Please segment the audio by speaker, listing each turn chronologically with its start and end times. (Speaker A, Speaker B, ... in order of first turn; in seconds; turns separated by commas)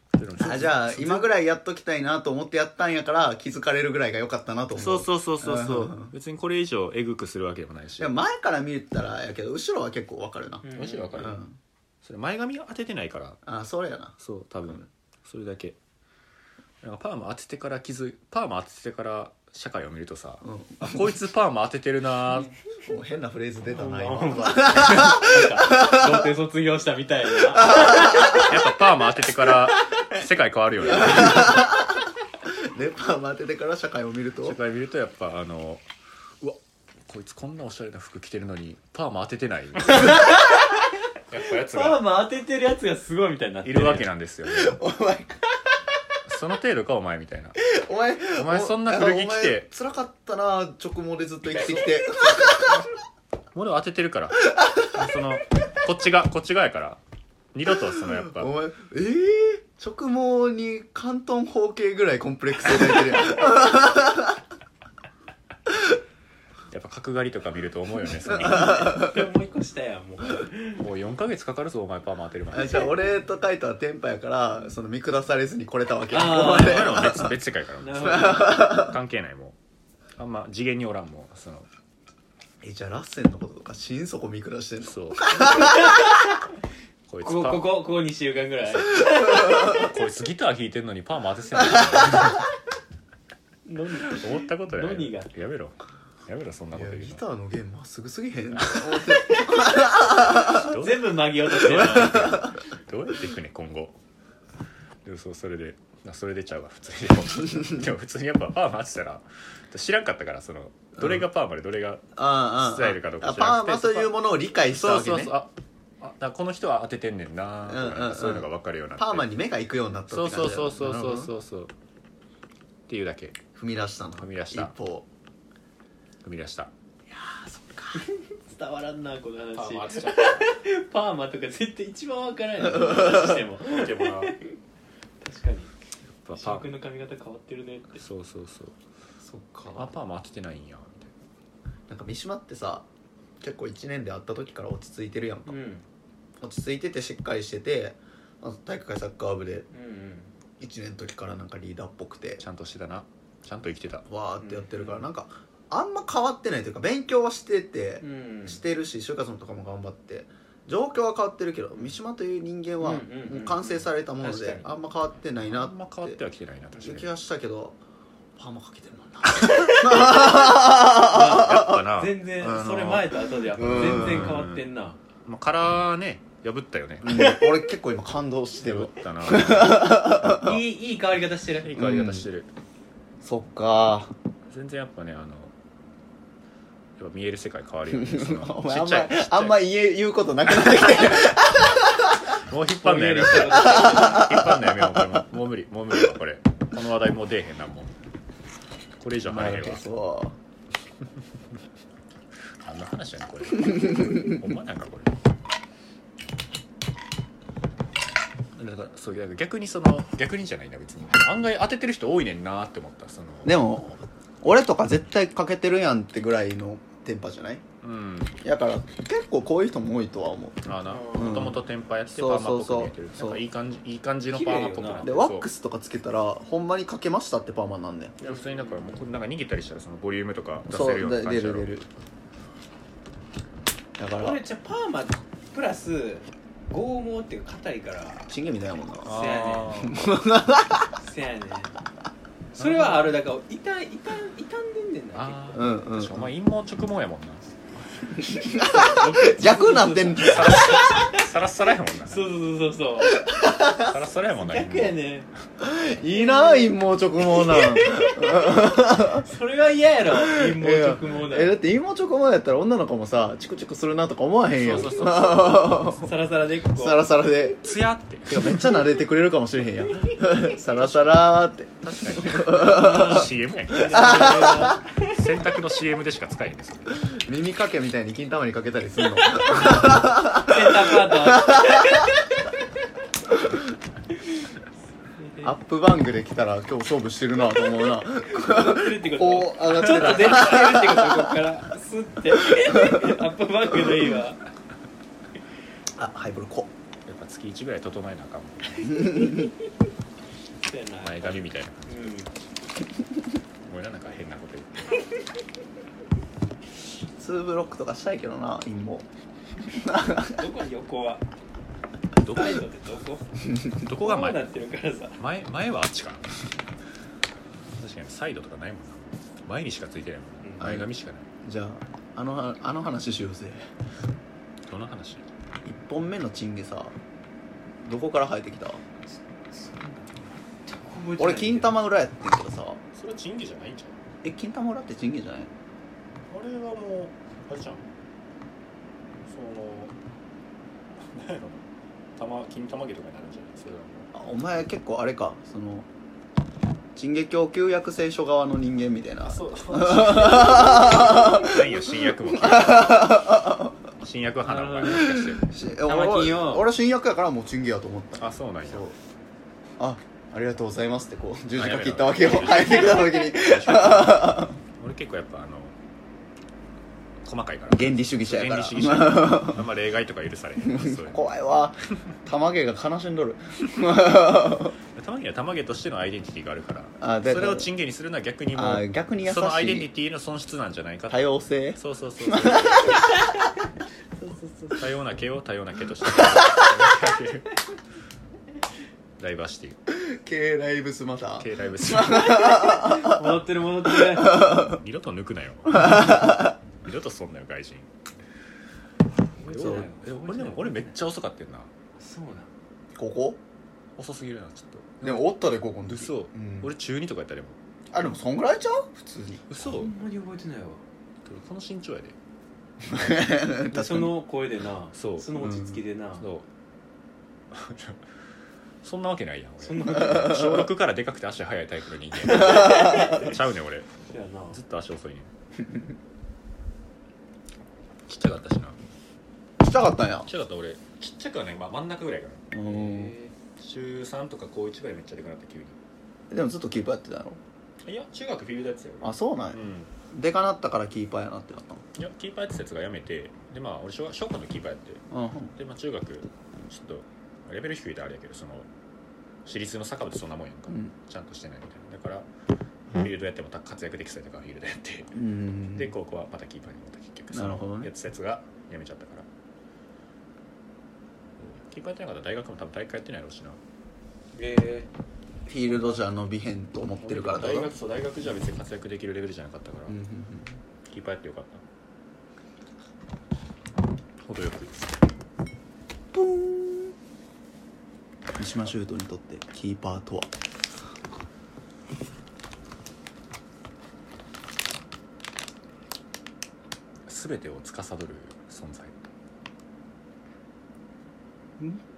Speaker A: 0.1-1.3, Speaker B: 0.4-6.1, Speaker A: 4.8-8.1, Speaker B: 8.0-11.6, Speaker C: 10.6-11.2, Speaker A: 10.7-11.4, Speaker A: 12.0-13.4, Speaker B: 13.4-14.1, Speaker A: 14.2-15.8, Speaker A: 16.8-22.5, Speaker B: 20.4-21.0, Speaker B: 22.8-26.2, Speaker C: 23.7-28.5, Speaker B: 27.5-28.5, Speaker A: 28.0-31.7, Speaker B: 30.9-34.6, Speaker A: 34.4-35.8, Speaker A: 36.4-40.4, Speaker C: 39.9-40.8, Speaker A: 41.3-42.0, Speaker C: 41.6-44.1, Speaker A: 43.6-44.8, Speaker B: 44.5-45.4, Speaker A: 46.2-47.6, Speaker B: 47.6-52.8, Speaker A: 48.3-49.7, Speaker A: 53.5-57.0, Speaker A: 57.5-58.5, Speaker B: 58.2-64.4, Speaker A: 66.7-69.0, Speaker C: 68.4-70.8, Speaker B: 68.5-69.1, Speaker A: 70.7-73.0, Speaker B: 72.5-77.3, Speaker C: 76.1-77.2, Speaker A: 76.1-79.5, Speaker C: 77.8-78.7, Speaker B: 78.1-78.9, Speaker A: 80.2-81.7, Speaker B: 82.6-86.0, Speaker A: 84.8-85.5, Speaker C: 85.4-86.4, Speaker A: 87.1-87.7, Speaker C: 87.2-89.9, Speaker A: 89.5-92.5, Speaker C: 93.7-95.3, Speaker A: 94.0-95.8, Speaker A: 96.3-97.2, Speaker B: 96.7-100.7, Speaker A: 98.5-99.2, Speaker A: 99.8-104.0, Speaker C: 100.4-102.5, Speaker B: 101.9-102.5, Speaker A: 105.0-119.3, Speaker B: 112.2-115.3, Speaker B: 117.7-121.3, Speaker A: 120.1-121.7, Speaker A: 122.9-123.4, Speaker B: 123.5-125.1, Speaker A: 124.1-124.7, Speaker A: 126.2-126.7, Speaker B: 127.2-128.0, Speaker C: 127.9-134.5, Speaker A: 129.5-130.5, Speaker A: 133.1-134.4, Speaker C: 135.2-135.7, Speaker A: 136.2-136.7, Speaker C: 136.3-138.0, Speaker A: 138.0-138.7, Speaker B: 139.2-139.9, Speaker A: 139.7-141.1, Speaker B: 141.9-142.8, Speaker B: 143.4-145.6, Speaker C: 145.5-145.8, Speaker B: 146.4-149.7, Speaker C: 149.7-150.3, Speaker B: 150.6-152.4, Speaker A: 152.4-154.0, Speaker B: 154.1-166.2, Speaker C: 154.4-155.0, Speaker C: 158.0-158.6, Speaker C: 162.8-164.7, Speaker A: 165.3-167.1, Speaker B: 166.8-167.8, Speaker B: 168.3-171.8, Speaker C: 169.6-170.2, Speaker C: 170.9-175.0, Speaker A: 171.1-174.7, Speaker B: 173.6-174.4, Speaker A: 175.2-177.4, Speaker B: 177.0-180.6, Speaker A: 178.6-180.5, Speaker C: 180.3-181.7, Speaker A: 181.6-182.5, Speaker B: 181.7-182.3, Speaker B: 183.2-184.1, Speaker A: 184.5-185.5, Speaker A: 187.0-189.6, Speaker B: 187.9-192.3, Speaker A: 192.3-197.9, Speaker C: 192.8-194.3, Speaker B: 193.3-195.2, Speaker A: 199.0-199.8, Speaker B: 199.2-200.3, Speaker A: 202.6-205.1, Speaker A: 208.5-213.6, Speaker B: 213.4-217.6, Speaker A: 217.8-218.4, Speaker B: 218.4-221.6, Speaker A: 220.6-225.5, Speaker C: 220.9-221.5, Speaker B: 222.1-223.4, Speaker C: 224.3-225.1, Speaker B: 225.0-228.2, Speaker A: 228.2-231.7, Speaker C: 228.2-228.8, Speaker B: 230.7-231.9, Speaker B: 234.0-234.4, Speaker C: 234.1-238.3, Speaker B: 238.3-239.1, Speaker C: 239.0-239.8, Speaker A: 239.0-239.9, Speaker B: 239.7-241.0, Speaker C: 241.0-241.8, Speaker C: 242.6-245.6, Speaker A: 242.6-243.1, Speaker A: 245.1-247.6, Speaker B: 245.5-246.3, Speaker B: 248.1-250.8, Speaker C: 248.5-251.2, Speaker A: 250.2-252.3, Speaker C: 252.1-253.3, Speaker B: 253.1-253.9, Speaker A: 253.7-255.0, Speaker C: 254.3-255.3, Speaker B: 255.6-259.2, Speaker C: 256.1-261.6, Speaker B: 260.1-266.1, Speaker A: 264.5-265.9, Speaker C: 265.8-267.1, Speaker B: 266.7-267.6, Speaker A: 267.6-268.6, Speaker B: 268.3-274.8, Speaker C: 270.0-270.3, Speaker A: 271.8-277.0, Speaker C: 272.7-275.1, Speaker B: 277.0-282.1, Speaker C: 280.3-282.6, Speaker C: 285.1-285.5, Speaker B: 285.4-291.4, Speaker C: 288.3-294.4, Speaker A: 289.7-290.7, Speaker B: 292.6-293.1, Speaker B: 295.9-296.7, Speaker A: 297.1-299.3, Speaker B: 298.8-299.5, Speaker C: 299.1-299.5, Speaker C: 300.6-302.3, Speaker A: 301.0-302.1, Speaker A: 303.6-305.0, Speaker B: 307.2-309.1, Speaker B: 309.7-310.4, Speaker C: 310.3-311.2, Speaker A: 312.2-312.6, Speaker C: 312.2-313.2, Speaker A: 313.7-314.4, Speaker C: 313.9-315.2, Speaker A: 315.2-316.3, Speaker A: 317.8-321.2, Speaker C: 320.4-320.7, Speaker B: 320.6-320.9, Speaker B: 321.4-323.7, Speaker A: 324.7-325.2, Speaker B: 325.6-326.9, Speaker B: 327.8-328.8, Speaker C: 329.5-331.8, Speaker B: 331.2-332.8, Speaker A: 332.9-334.0, Speaker B: 334.2-335.5, Speaker A: 336.3-337.8, Speaker A: 339.3-339.9, Speaker A: 341.0-341.6, Speaker A: 342.2-344.1, Speaker B: 344.1-345.9, Speaker B: 346.9-353.7, Speaker A: 349.2-353.4, Speaker A: 354.0-355.5, Speaker C: 354.4-355.2, Speaker B: 354.9-358.9, Speaker C: 355.8-356.7, Speaker A: 358.2-358.9, Speaker B: 359.8-364.6, Speaker A: 361.6-365.7, Speaker A: 367.2-371.3, Speaker B: 367.7-369.6, Speaker B: 370.6-374.8, Speaker A: 374.9-383.0, Speaker B: 377.0-377.7, Speaker B: 378.5-379.9, Speaker B: 381.1-383.0, Speaker C: 383.1-383.5, Speaker C: 384.2-384.7, Speaker A: 384.7-387.6, Speaker A: 389.2-389.8, Speaker B: 389.9-393.4, Speaker A: 391.4-392.8, Speaker C: 392.3-394.6, Speaker B: 393.9-394.8, Speaker A: 394.2-397.9, Speaker B: 395.7-396.5, Speaker C: 399.4-400.9, Speaker A: 399.4-401.7, Speaker B: 399.6-399.8, Speaker C: 402.0-402.5, Speaker B: 402.9-403.4, Speaker A: 403.9-405.3, Speaker B: 405.0-406.7, Speaker A: 405.8-407.6, Speaker B: 407.9-409.5, Speaker A: 409.5-409.9, Speaker C: 409.6-410.8, Speaker A: 411.2-412.1, Speaker B: 412.8-414.1, Speaker C: 413.7-416.2, Speaker A: 414.9-415.4, Speaker B: 415.4-415.8, Speaker A: 416.2-416.4, Speaker A: 417.5-418.0, Speaker A: 418.8-423.9, Speaker C: 419.6-420.4, Speaker C: 422.6-423.3, Speaker B: 422.7-423.1, Speaker C: 424.1-424.6, Speaker A: 424.5-425.3, Speaker A: 428.1-428.8, Speaker B: 429.6-430.3, Speaker A: 430.3-432.5, Speaker B: 432.5-433.1, Speaker C: 432.6-433.3, Speaker A: 433.6-435.8, Speaker B: 436.3-437.4, Speaker A: 437.8-439.9, Speaker B: 439.0-439.6, Speaker B: 440.1-441.8, Speaker A: 441.9-445.0, Speaker B: 445.1-445.5, Speaker A: 445.6-448.7, Speaker A: 449.4-452.3, Speaker A: 452.9-455.1, Speaker B: 455.1-455.9, Speaker A: 455.7-459.3, Speaker B: 457.3-457.9, Speaker A: 461.4-463.6, Speaker C: 464.3-464.9, Speaker B: 465.5-467.7, Speaker A: 467.0-470.0, Speaker B: 469.9-470.6, Speaker A: 470.9-471.6, Speaker A: 474.2-475.0, Speaker B: 476.1-476.9, Speaker B: 478.4-480.3, Speaker A: 487.1-488.9